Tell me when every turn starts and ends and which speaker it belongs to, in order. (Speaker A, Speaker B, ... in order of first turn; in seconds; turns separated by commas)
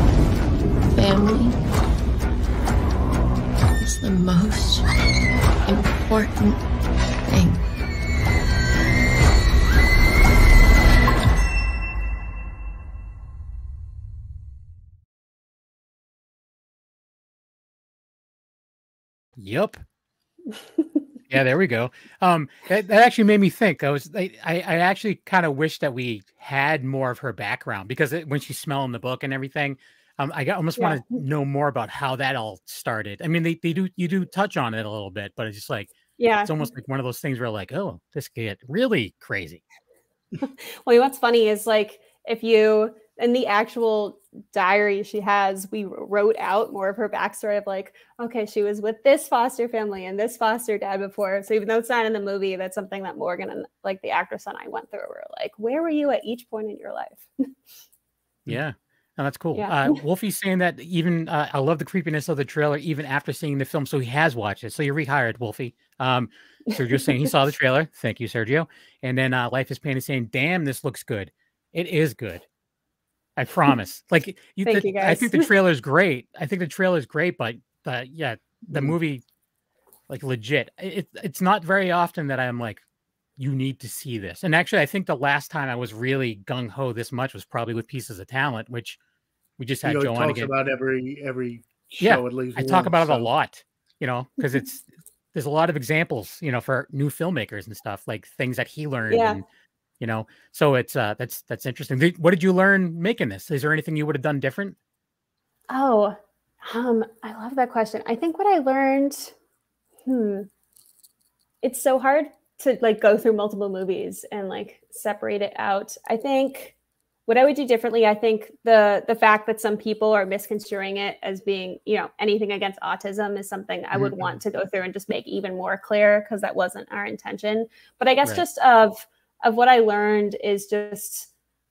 Speaker A: 0.9-1.6, Speaker A: 3.8-4.9, Speaker A: 5.7-6.6, Speaker A: 7.2-7.6, Speaker B: 19.4-19.8, Speaker B: 21.3-35.9, Speaker C: 30.8-31.0, Speaker C: 36.2-36.6, Speaker B: 36.4-39.6, Speaker C: 40.5-57.5, Speaker B: 58.5-72.4, Speaker C: 59.5-60.0, Speaker C: 66.7-67.3, Speaker B: 73.4-79.2, Speaker C: 74.6-75.5, Speaker B: 80.1-82.8, Speaker B: 83.4-89.0, Speaker B: 89.6-90.5, Speaker D: 89.8-93.3, Speaker B: 92.0-99.4, Speaker C: 99.1-99.4, Speaker B: 100.0-104.8, Speaker C: 105.7-109.3, Speaker C: 110.0-110.5, Speaker C: 111.6-116.7, Speaker C: 117.3-131.3, Speaker B: 123.9-124.4